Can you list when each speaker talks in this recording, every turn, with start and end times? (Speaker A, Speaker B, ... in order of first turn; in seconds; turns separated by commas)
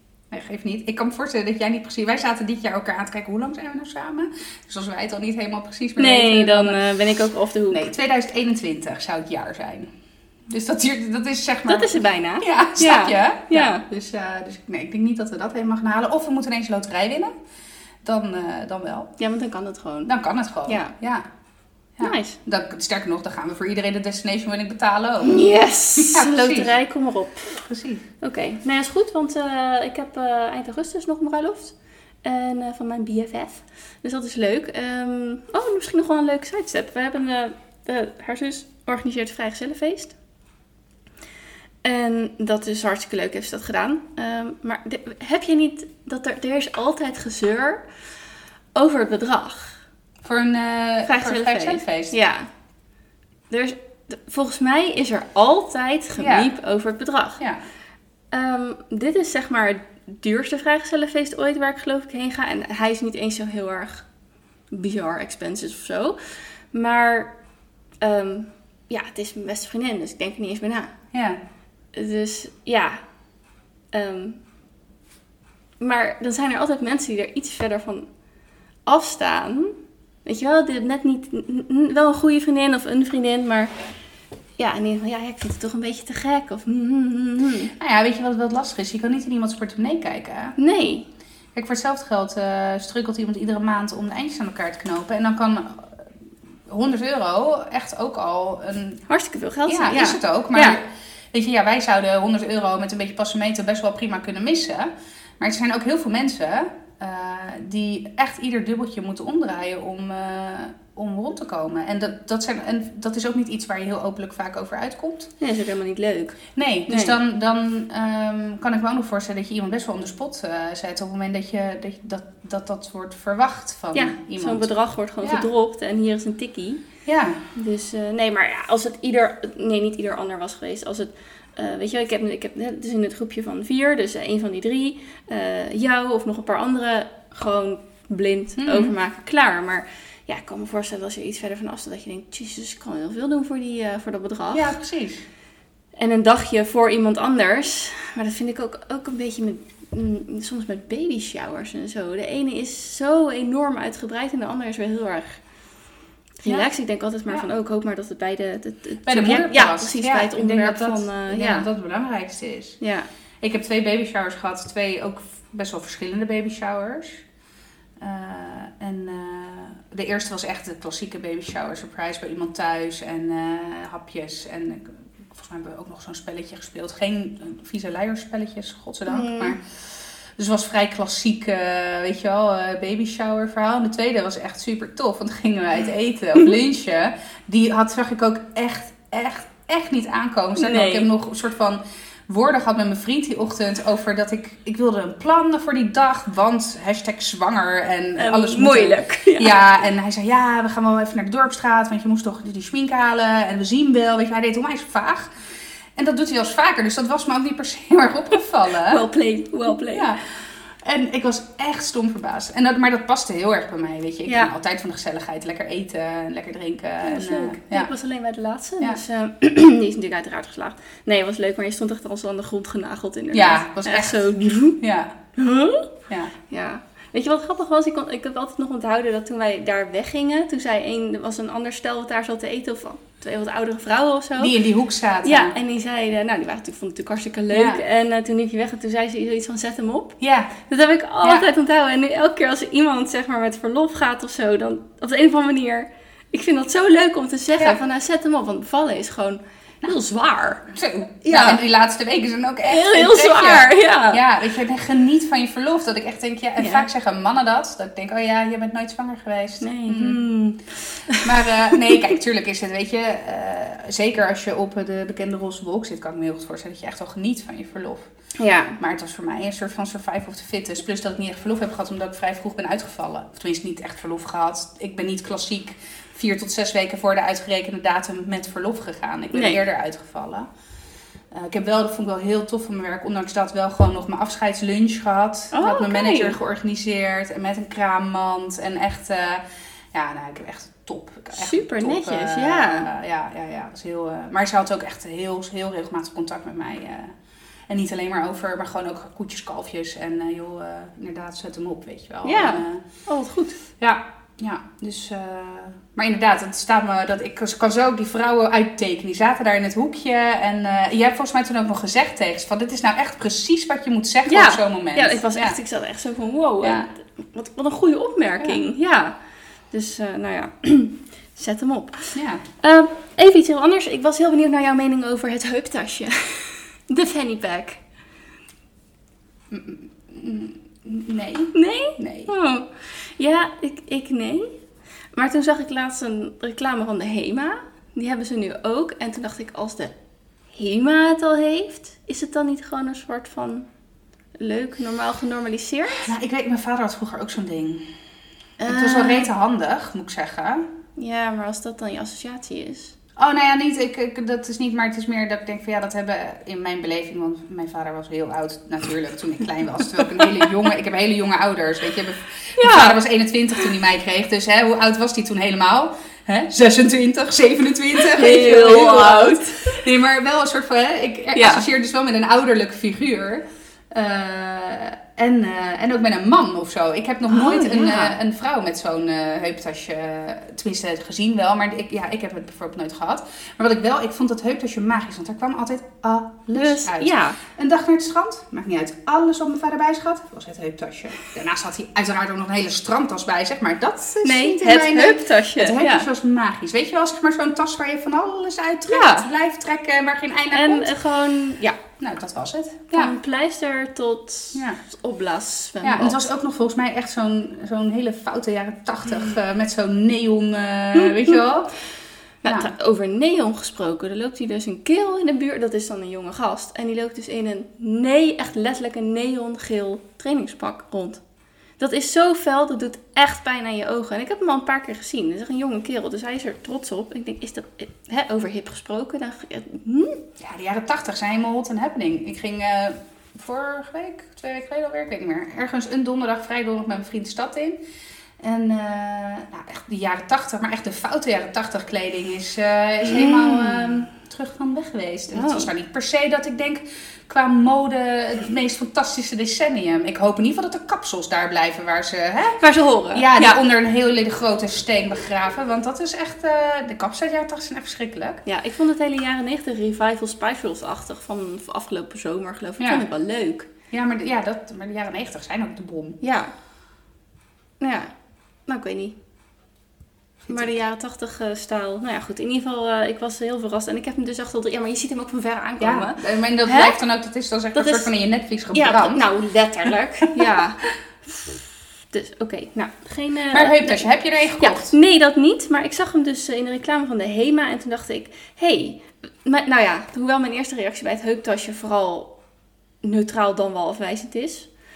Speaker A: 0.3-6.8, Speaker B: 6.0-7.8, Speaker A: 7.7-9.9, Speaker A: 10.5-17.3, Speaker B: 11.7-13.8, Speaker A: 18.1-19.1, Speaker B: 19.2-20.1, Speaker A: 20.1-21.2, Speaker B: 20.7-20.9, Speaker A: 22.0-25.4, Speaker B: 22.0-22.4, Speaker B: 25.2-27.7, Speaker A: 26.0-26.7, Speaker A: 27.6-28.1, Speaker B: 28.2-40.1, Speaker B: 41.8-47.9, Speaker B: 48.7-49.8, Speaker A: 50.2-52.1, Speaker B: 51.1-52.5, Speaker B: 53.5-57.4, Speaker A: 56.2-56.5, Speaker B: 58.3-64.1, Speaker B: 64.7-67.3, Speaker B: 68.0-70.9, Speaker A: 71.1-71.4, Speaker B: 71.9-73.0, Speaker B: 73.9-74.4, Speaker B: 75.8-78.1, Speaker B: 78.9-79.7, Speaker B: 80.2-83.8, Speaker B: 84.6-87.7, Speaker A: 87.8-90.6, Speaker B: 90.6-91.1, Speaker A: 91.5-96.0, Speaker A: 96.7-99.0, Speaker B: 99.1-100.8, Speaker A: 99.7-115.3, Speaker B: 115.4-117.2, Speaker A: 116.6-124.7, Speaker B: 123.9-126.8, Speaker A: 125.2-125.5, Speaker A: 127.1-127.4, Speaker B: 127.5-144.8, Speaker A: 138.6-138.9, Speaker A: 144.5-145.2, Speaker B: 145.9-155.4, Speaker B: 156.4-161.7, Speaker A: 159.1-162.8, Speaker B: 162.8-163.1, Speaker A: 163.4-167.2, Speaker A: 168.0-179.7, Speaker B: 179.1-179.6, Speaker A: 180.4-205.3, Speaker B: 190.6-191.1, Speaker B: 198.2-199.6, Speaker A: 205.9-209.1, Speaker B: 208.8-210.1, Speaker A: 209.7-217.9, Speaker B: 214.2-214.5, Speaker B: 217.0-224.8, Speaker A: 223.3-225.2, Speaker B: 225.4-225.9, Speaker A: 226.1-226.3, Speaker B: 226.5-234.6, Speaker A: 234.4-235.6, Speaker B: 235.2-250.7, Speaker A: 237.5-237.8, Speaker A: 240.2-240.5, Speaker A: 250.7-260.2, Speaker B: 251.2-251.6, Speaker B: 252.6-254.2, Speaker B: 256.6-256.9, Speaker B: 259.6-262.0, Speaker A: 261.2-268.1, Speaker B: 268.4-268.8, Speaker A: 268.8-280.5, Speaker B: 279.3-279.6, Speaker A: 281.3-297.1, Speaker B: 285.5-286.4, Speaker B: 291.3-292.9, Speaker A: 297.7-302.8, Speaker B: 302.2-303.6, Speaker A: 303.8-315.6, Speaker B: 314.3-319.2, Speaker A: 316.6-316.9, Speaker B: 319.7-327.8, Speaker A: 322.1-322.4, Speaker A: 329.5-332.3, Speaker B: 331.5-334.5, Speaker B: 335.1-339.9, Speaker B: 340.5-343.7, Speaker B: 344.4-346.1, Speaker A: 345.9-347.9, Speaker B: 348.6-349.3, Speaker A: 348.6-350.6, Speaker B: 351.0-353.0, Speaker A: 353.2-400.9, Speaker B: 362.6-363.0, Speaker B: 368.0-369.8, Speaker B: 371.4-371.6, Speaker B: 377.3-378.1, Speaker B: 386.5-387.4, Speaker B: 394.2-396.1, Speaker B: 398.9-399.3, Speaker B: 400.5-401.8, Speaker A: 402.0-403.1, Speaker B: 402.9-406.2, Speaker A: 404.5-404.8, Speaker A: 405.8-411.8, Speaker B: 410.9-411.5, Speaker B: 412.4-421.2, Speaker A: 412.5-412.7, Speaker B: 421.8-430.2, Speaker A: 430.4-437.8, Speaker A: 438.4-452.6, Speaker B: 443.1-444.0, Speaker B: 445.3-445.7, Speaker B: 452.6-453.6, Speaker A: 453.1-458.4, Speaker B: 458.5-463.7, Speaker A: 462.8-463.0, Speaker A: 463.9-466.2, Speaker B: 466.2-466.5, Speaker B: 467.8-468.1, Speaker B: 468.6-469.1, Speaker A: 470.5-470.8, Speaker B: 470.5-477.0, Speaker A: 475.8-479.2, Speaker B: 477.7-478.1, Speaker B: 478.7-484.1, Speaker A: 483.5-484.9, Speaker B: 484.6-492.3, Speaker B: 493.0-494.7